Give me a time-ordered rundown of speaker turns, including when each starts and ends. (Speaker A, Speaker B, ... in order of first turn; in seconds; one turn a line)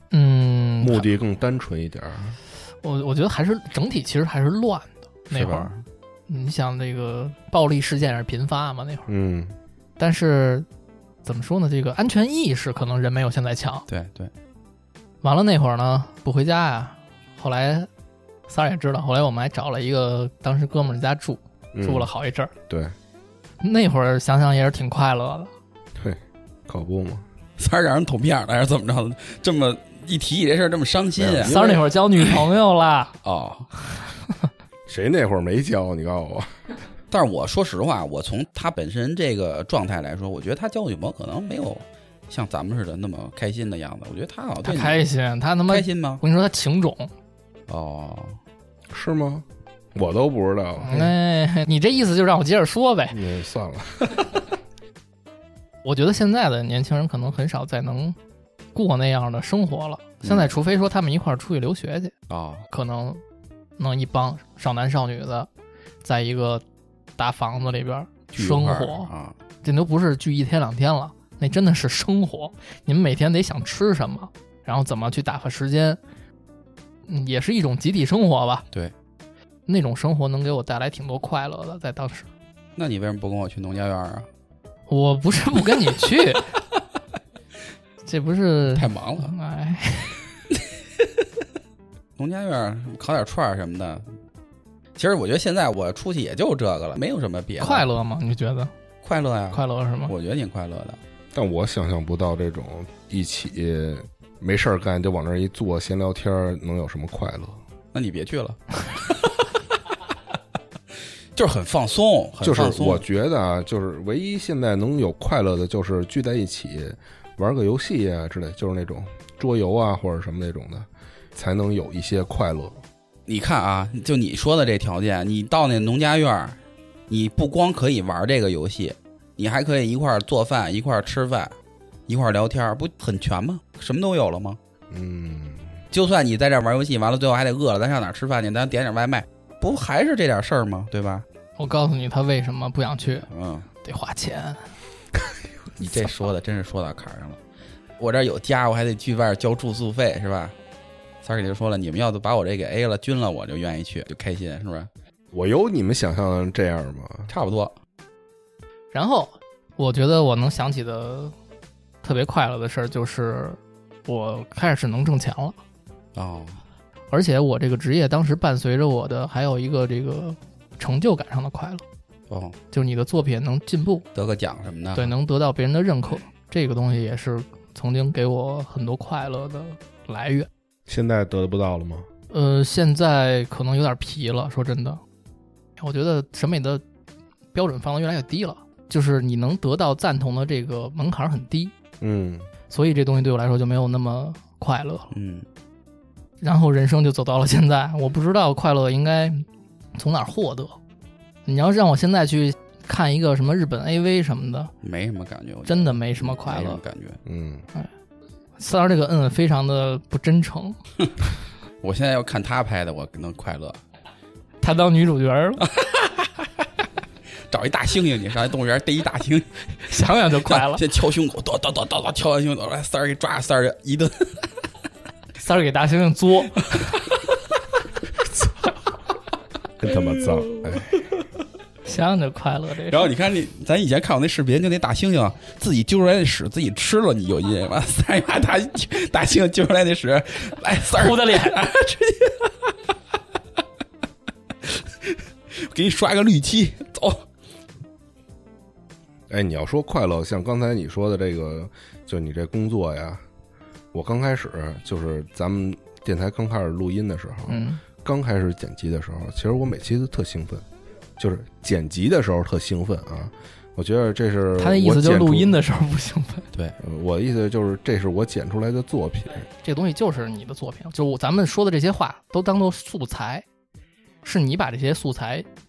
Speaker A: 0.1-1.1
Speaker B: 0.8-2.4
Speaker A: 2.8-5.7
Speaker C: 5.3-5.8
Speaker A: 6.3-9.1
Speaker B: 9.1-9.6
Speaker A: 10.0-10.7
Speaker A: 11.2-13.8
Speaker C: 13.9-14.3
Speaker A: 15.2-17.9
Speaker A: 18.5-22.5
Speaker B: 21.7-22.1
Speaker B: 22.7-22.9
Speaker A: 23.6-25.5
Speaker B: 26.0-27.2
Speaker C: 27.6-31.6
Speaker B: 31.2-31.8
Speaker A: 31.4-33.1
Speaker C: 33.2-33.7
Speaker A: 33.9-34.3
Speaker B: 34.9-36.5
Speaker C: 37.1-45.0
Speaker A: 44.6-47.1
Speaker C: 45.7-46.2
Speaker C: 47.7-48.4
Speaker B: 48.9-51.1
Speaker A: 50.8-53.2
Speaker B: 53.1-54.3
Speaker A: 55.8-58.1
Speaker A: 58.7-62.1
Speaker C: 60.2-60.5
Speaker C: 62.3-62.6
Speaker A: 62.7-63.2
Speaker A: 63.8-65.5
Speaker A: 66.0-66.6
Speaker A: 67.2-69.1
Speaker C: 68.3-69.3
Speaker A: 69.6-76.0
Speaker A: 77.1-78.7
Speaker A: 79.7-82.3
Speaker C: 82.8-84.3
Speaker A: 84.9-86.5
Speaker A: 88.0-90.2
Speaker C: 88.7-89.3
Speaker C: 92.2-94.0
Speaker C: 95.0-97.8
Speaker A: 97.6-98.7
Speaker C: 99.0-101.0
Speaker A: 99.5-100.1
Speaker B: 101.3-107.6
Speaker C: 107.9-109.5
Speaker C: 111.3-113.0
Speaker B: 112.4-122.8
Speaker C: 123.3-126.6
Speaker C: 127.1-131.5
Speaker C: 132.1-134.6
Speaker B: 134.9-135.8
Speaker C: 135.9-141.2
Speaker A: 141.6-143.2
Speaker C: 143.2-143.7
Speaker A: 143.8-144.6
Speaker C: 145.8-147.4
Speaker C: 148.0-150.5
Speaker C: 151.2-154.9
Speaker B: 155.3-157.3
Speaker C: 157.3-157.7
Speaker A: 158.9-161.3
Speaker A: 162.0-165.6
Speaker C: 166.1-166.6
Speaker A: 167.1-171.8
Speaker C: 172.3-172.6
Speaker A: 172.7-174.0
Speaker C: 174.1-175.1
Speaker A: 174.9-180.5
Speaker B: 180.9-182.1
Speaker A: 182.3-185.0
Speaker A: 185.8-186.8
Speaker A: 187.5-191.7
Speaker B: 192.0-192.5
Speaker A: 192.7-195.1
Speaker C: 195.1-195.4
Speaker A: 196.4-200.8
Speaker A: 201.4-204.7
Speaker C: 204.8-207.2
Speaker A: 205.7-206.8
Speaker B: 207.2-207.7
Speaker A: 208.6-210.8
Speaker C: 211.8-213.8
Speaker A: 214.6-215.6
Speaker C: 215.6-216.7
Speaker C: 217.5-219.6
Speaker A: 219.8-220.8
Speaker C: 220.4-224.5
Speaker A: 225.4-226.8
Speaker B: 229.8-230.9
Speaker C: 229.9-231.2
Speaker A: 231.8-233.1
Speaker C: 232.9-242.7
Speaker A: 240.9-241.6
Speaker C: 244.6-247.2
Speaker B: 249.3-253.2
Speaker B: 253.9-260.6
Speaker A: 257.5-257.8
Speaker B: 261.2-265.6
Speaker A: 264.6-266.4
Speaker B: 266.8-269.5
Speaker A: 269.6-273.4
Speaker A: 274.2-275.4